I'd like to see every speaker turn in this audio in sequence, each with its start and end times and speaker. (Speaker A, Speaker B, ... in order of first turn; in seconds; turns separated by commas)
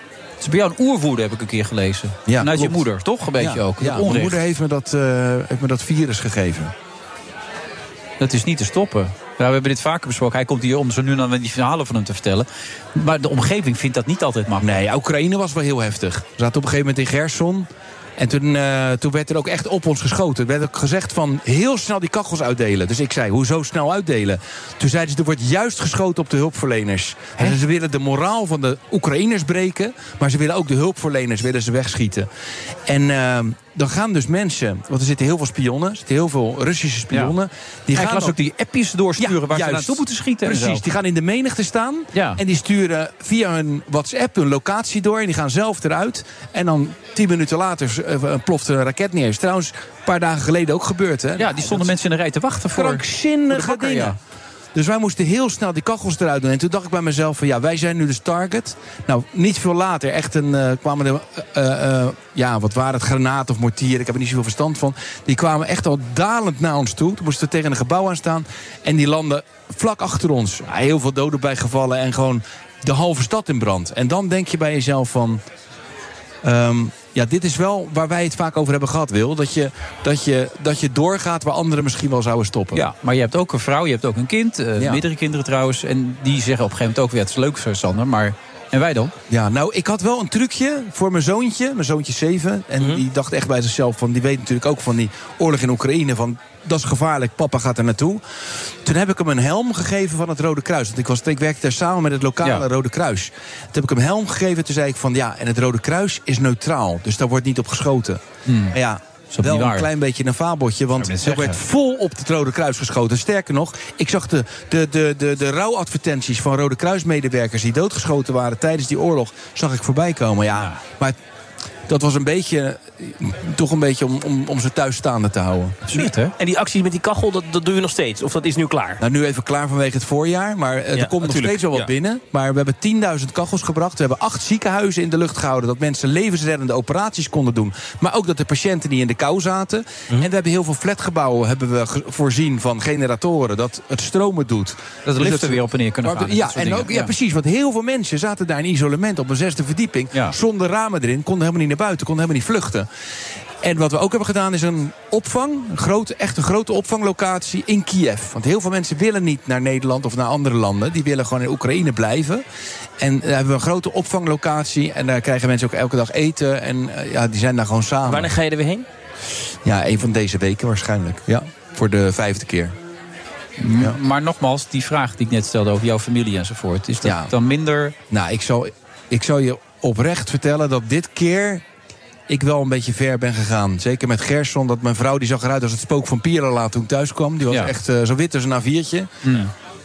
Speaker A: 0.4-4.4, Speaker B: 2.3-2.8, Speaker B: 3.4-6.7, Speaker A: 8.2-14.7, Speaker B: 14.6-32.3, Speaker B: 32.9-38.4, Speaker A: 37.9-40.8, Speaker B: 39.2-51.9, Speaker A: 42.1-42.4, Speaker A: 51.4-54.2, Speaker B: 52.7-54.2, Speaker B: 54.7-75.4, Speaker B: 76.4-82.8, Speaker A: 82.7-89.1, Speaker B: 89.3-98.2, Speaker B: 98.8-121.2, Speaker A: 108.5-108.8, Speaker A: 109.3-109.9, Speaker A: 111.0-111.6, Speaker A: 120.5-120.8, Speaker B: 121.9-125.8, Speaker A: 125.9-126.3, Speaker C: 125.9-129.0, Speaker B: 129.0-152.9, Speaker C: 130.9-131.9, Speaker A: 145.0-147.1, Speaker B: 153.6-162.4, Speaker B: 163.0-168.3, Speaker C: 168.1-168.8, Speaker B: 169.6-172.7, Speaker A: 173.6-177.9, Speaker B: 177.0-177.3, Speaker B: 178.1-181.6, Speaker B: 182.3-189.1, Speaker A: 189.2-189.5